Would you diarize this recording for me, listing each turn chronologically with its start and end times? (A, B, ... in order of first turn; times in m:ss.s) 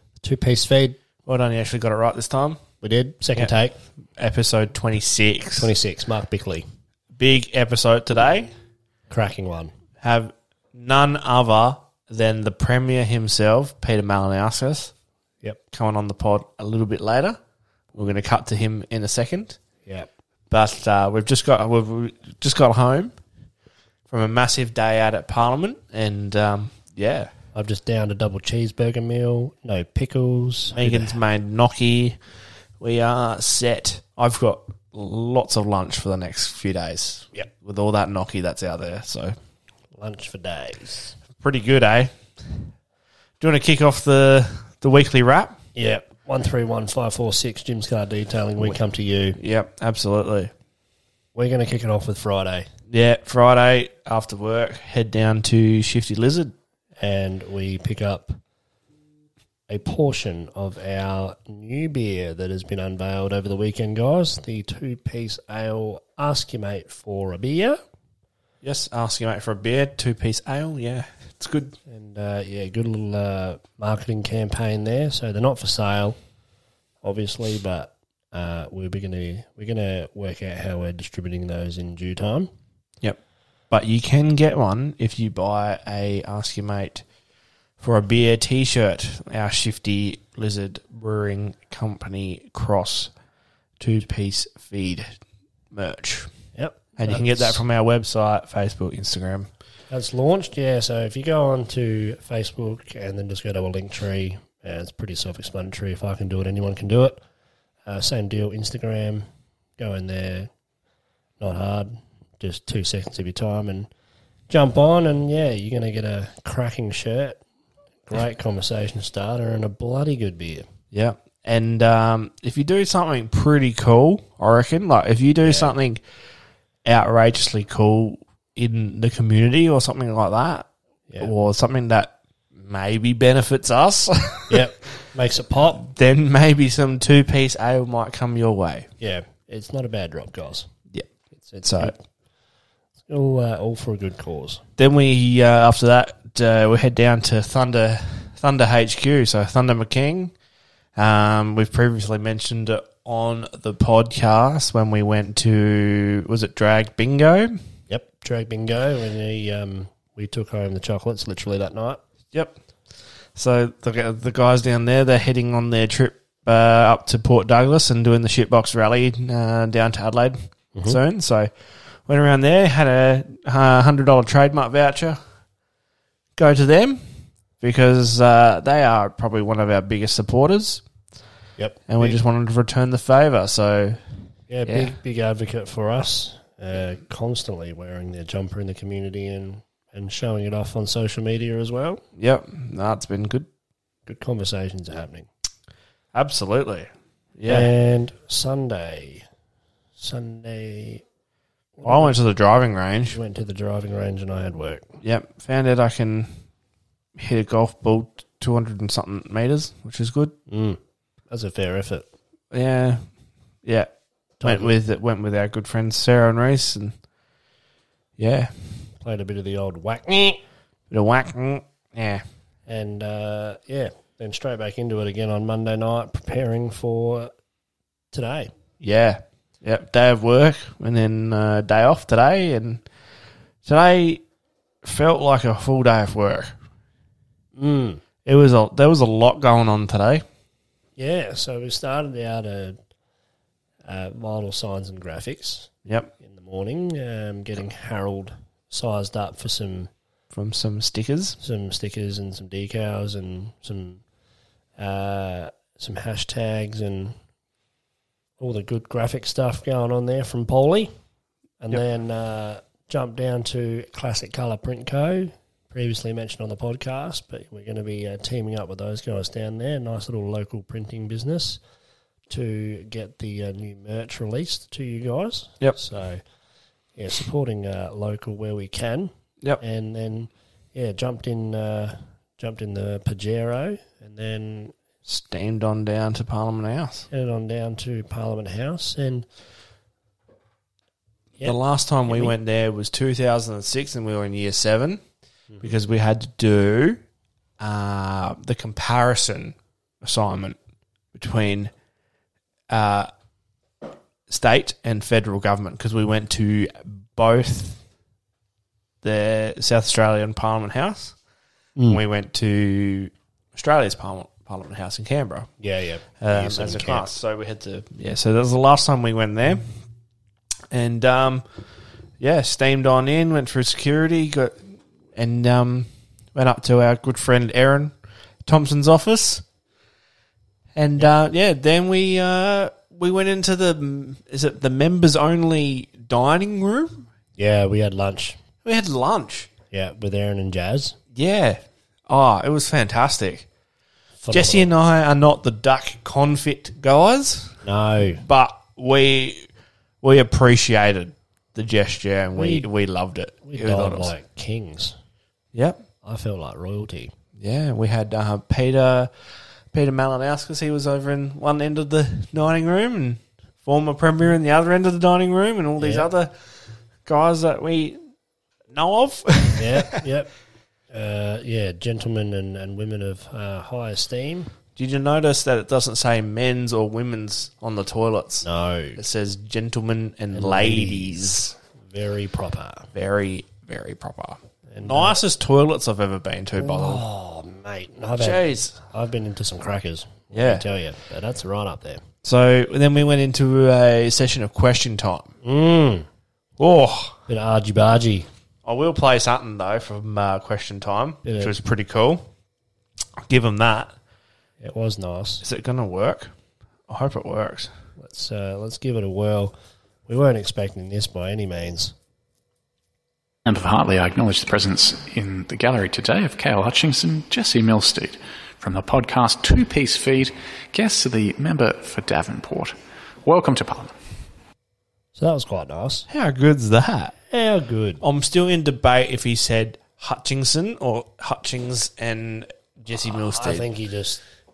0:00.2-0:01.0 A
0:01.2-0:02.6 B
0:02.8-0:03.8 A
0:04.2-0:05.7 B
0:05.6-0:06.6 A
0:07.1-0:08.5 B
0:09.1-0:09.7 A
0:10.0-0:14.9 B
0:15.7-0:17.4 B
0:17.9-0:19.6 B
0:20.5-0:23.2 B
0:24.1-0:27.3 B
0:27.5-0:31.2 A
0:30.7-0:32.2 B
0:32.8-0:39.3 B
0:39.9-0:41.1 A
0:41.3-0:42.6 B
0:43.4-0:45.6 B
0:45.7-0:49.4 A
0:49.4-0:50.5 B
0:51.3-0:52.7 A
0:52.9-0:56.5 B
0:57.0-0:58.4 A
0:59.7-1:07.8 A
1:08.6-1:11.8 B
1:11.9-1:16.2 A
1:17.0-1:22.5 A
1:23.7-1:27.0 B
1:27.8-1:33.1 B
1:33.8-1:35.2 B
1:35.7-1:36.3 B
1:36.5-1:37.6 A
1:37.0-1:39.5 B
1:39.9-1:47.2 A
1:47.8-1:49.2 A
1:49.8-1:50.5 A
1:51.4-1:53.9 A
1:54.5-1:57.4 A
1:58.0-2:00.7 A
2:00.9-2:06.0 B
2:05.4-2:05.7 A
2:06.8-2:14.6 B
2:14.5-2:15.8 A
2:15.8-2:18.9 B
2:19.0-2:20.7 A
2:21.4-2:22.0 A
2:21.6-2:21.9 B
2:23.1-2:24.6 A
2:24.8-2:30.3 B
2:31.0-2:37.6 B
2:37.9-2:42.0 A
2:43.3-2:51.5 B
2:52.0-2:55.2 B
2:56.4-2:57.1 B
2:57.6-3:00.8 B
3:01.6-3:02.2 A
3:01.9-3:04.0 B
3:04.5-3:12.0 A
3:04.6-3:04.9 B
3:12.2-3:13.5 B
3:14.0-3:15.3 A
3:16.1-3:17.7 B
3:17.5-3:19.2 A
3:20.0-3:21.0 A
3:21.8-3:22.1 A
3:21.8-3:23.2 B
3:23.1-3:24.9 A
3:25.0-3:26.3 B
3:27.2-3:30.4 B
3:30.5-3:32.1 A
3:32.5-3:33.0 B
3:33.6-3:33.9 B
3:34.4-3:34.7 A
3:34.4-3:37.0 B
3:38.2-3:38.7 B
3:39.0-3:40.4 A
3:40.9-3:42.2 B
3:42.7-3:47.3 A
3:48.1-3:48.5 A
3:48.8-3:52.8 B
3:53.6-3:54.2 B
3:54.8-3:56.5 B
3:57.5-3:58.0 A
3:58.2-4:00.2 B
4:01.0-4:02.8 A
4:03.8-4:09.9 A
4:05.8-4:06.1 B
4:10.3-4:11.4 B
4:11.4-4:14.0 A
4:14.8-4:17.1 A
4:18.4-4:20.9 A
4:21.6-4:31.6 A
4:32.3-4:36.2 A
4:37.0-4:44.7 A
4:45.1-4:47.1 B
4:47.1-4:49.2 A
4:51.4-4:55.0 B
4:52.1-4:52.3 A
4:55.6-4:57.0 B
4:57.6-5:00.6 B
5:01.1-5:01.7 B
5:02.7-5:03.1 B
5:04.3-5:07.8 B
5:09.0-5:11.2 B
5:11.9-5:15.5 B
5:15.6-5:17.1 A
5:16.2-5:19.7 B
5:20.7-5:21.4 B
5:22.2-5:27.9 B
5:28.4-5:29.4 B
5:30.7-5:37.0 B
5:37.4-5:38.4 A
5:38.6-5:39.5 B
5:39.7-5:41.0 A
5:41.1-5:43.4 B
5:44.2-5:44.7 A
5:44.3-5:47.6 B
5:47.6-5:48.2 A
5:48.2-5:49.5 B
5:50.0-5:54.1 B
5:52.4-5:52.7 A
5:53.4-5:55.0 A
5:55.5-5:55.8 B
5:56.0-5:57.1 A
5:57.4-5:59.1 B
5:59.7-6:06.3 B
6:05.8-6:06.1 A
6:07.0-6:08.0 B
6:08.7-6:10.0 B
6:09.6-6:10.3 A
6:10.9-6:14.5 A
6:14.7-6:21.5 B
6:18.4-6:19.0 A
6:20.3-6:21.3 A
6:21.8-6:22.9 A
6:22.9-6:27.0 B
6:24.7-6:25.2 A
6:26.6-6:32.0 A
6:28.2-6:28.8 B
6:30.3-6:30.6 B
6:32.2-6:35.3 B
6:35.4-6:36.1 A
6:36.6-6:37.2 B
6:37.3-6:38.3 A
6:38.6-6:42.3 B
6:41.2-6:41.5 A
6:43.2-6:43.9 B
6:44.6-6:45.4 A
6:45.4-6:46.3 B
6:46.9-6:47.7 B
6:48.0-6:49.5 A
6:50.1-6:51.9 A
6:53.4-7:03.9 C
7:05.1-7:06.1 A
7:06.1-7:07.1 B
7:07.3-7:08.0 A
7:08.0-7:13.7 B
7:13.0-7:14.2 A